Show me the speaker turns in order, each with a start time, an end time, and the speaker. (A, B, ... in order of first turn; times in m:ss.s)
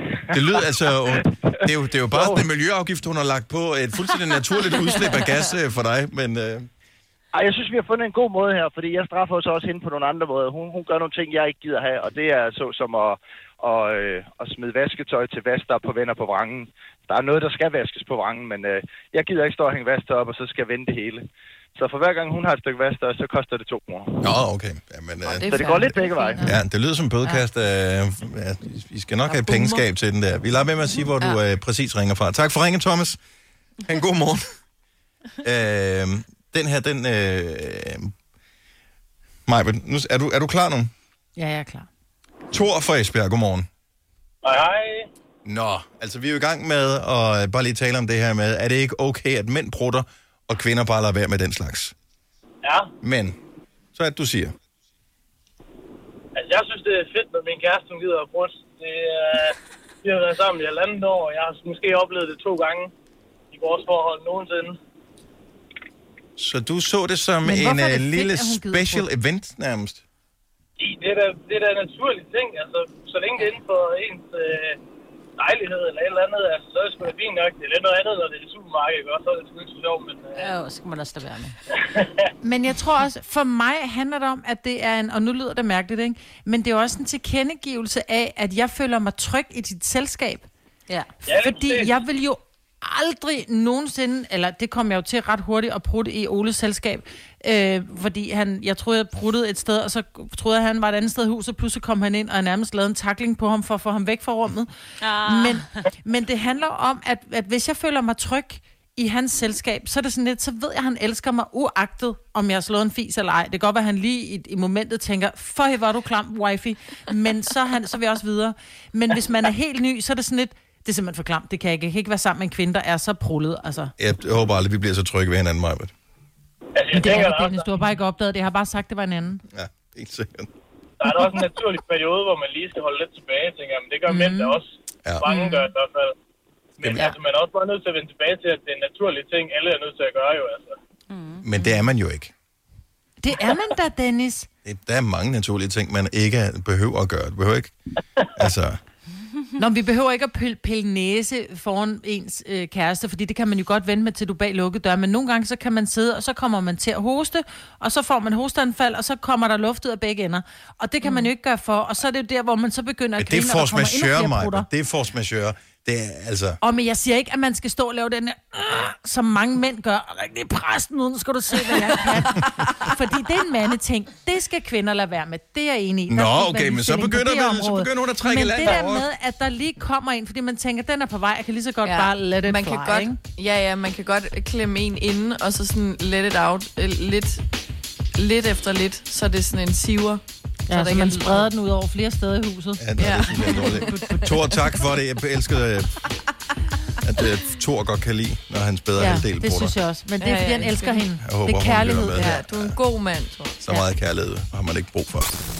0:00.1-0:02.4 A
0:00.3-0:06.7 B
0:04.7-0:05.4 C
0:07.3-0:24.4 A
0:24.2-0:25.8 B
0:25.3-0:26.4 C
0:25.4-0:26.4 A
0:26.4-0:33.2 B
0:29.3-0:29.8 C
0:33.8-0:34.4 B
0:35.4-0:38.1 B
0:39.5-0:40.9 B
0:41.4-0:41.9 D
0:42.5-0:43.7 B
0:44.4-0:45.1 E
0:45.4-0:51.9 B
0:52.6-0:52.9 E
0:53.0-0:53.4 B
0:53.9-0:54.5 B
0:56.4-1:02.9 E
1:03.5-1:04.8 E
1:06.4-1:10.0 B
1:07.4-1:09.1 D
1:10.8-1:14.8 E
1:15.4-1:20.5 E
1:20.4-1:21.6 F
1:21.7-1:22.2 E
1:22.4-1:30.5 D
1:31.2-1:31.9 E
1:31.3-1:44.7 D
1:45.0-1:45.7 F
1:45.2-2:03.9 D
2:04.0-2:05.9 B
2:06.7-2:07.7 E
2:06.9-2:09.4 D
2:09.5-2:10.5 B
2:11.0-2:16.1 E
2:14.1-2:14.6 D
2:15.2-2:15.6 D
2:16.8-2:20.8 E
2:16.8-2:17.1 B
2:21.1-2:21.4 F
2:21.4-2:22.3 B
2:23.2-2:24.5 D
2:24.6-2:27.7 B
2:28.4-2:28.8 B
2:29.6-2:44.7 D
2:43.2-2:46.6 B
2:46.6-3:03.2 D
2:51.7-2:52.5 C
2:56.1-2:59.1 B
3:01.8-3:07.4 C
3:08.2-3:11.5 C
3:10.7-3:14.7 D
3:12.8-3:16.0 B
3:13.0-3:14.4 C
3:17.0-3:19.7 B
3:19.0-3:22.4 D
3:20.2-3:21.0 C
3:21.2-3:22.8 B
3:22.1-3:23.6 C
3:23.6-3:25.4 B